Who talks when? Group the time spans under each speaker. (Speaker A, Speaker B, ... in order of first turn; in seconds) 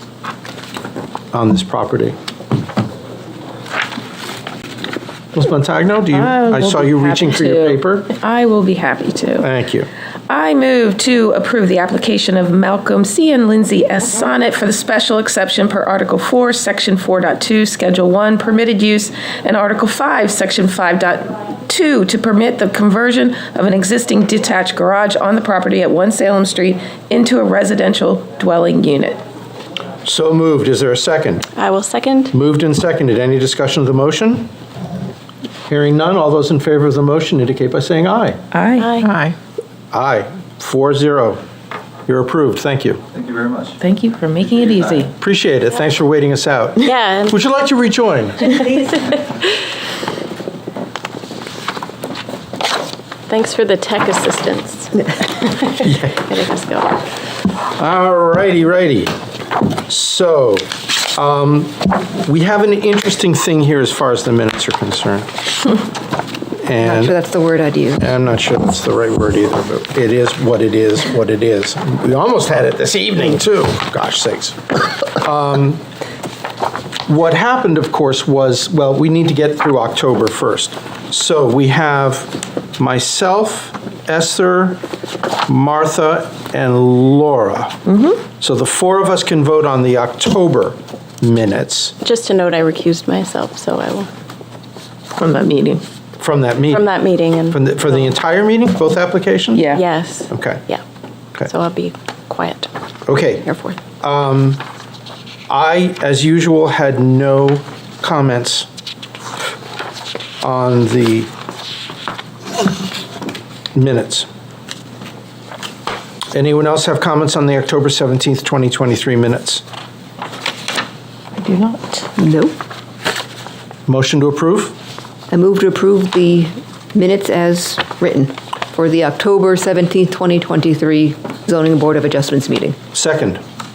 Speaker A: 1.3-2.2, 5.3-8.1, 9.4-9.9, 30.0-31.5, 32.3-34.5, 35.7-38.4, 39.9-41.4, 42.1-43.0, 45.2-48.6, 55.8-56.2, 57.8-59.1, 59.8-65.3, 66.6-67.2, 68.0-75.8, 77.1-84.8, 85.5-87.8, 88.4-92.0, 96.2-96.9, 97.5-99.7, 100.3-100.6, 103.0-103.5, 104.0-104.6, 105.5-108.7, 110.4-111.3, 113.7-114.3, 116.3-119.6, 123.9-124.7, 132.9-133.4
Speaker B: 6.1-9.5, 10.3-29.2, 38.5-39.0, 43.7-45.1, 87.8-88.2, 95.2-95.8, 99.5-99.8, 121.4-122.1
Speaker C: 31.5-32.3, 38.8-39.1, 46.8-47.4, 48.5-48.9, 53.3-57.0, 92.0-94.1, 96.7-97.7, 99.7-100.8, 101.4-102.7, 103.4-103.8
Speaker D: 66.8-68.1, 122.2-122.5, 125.3-132.8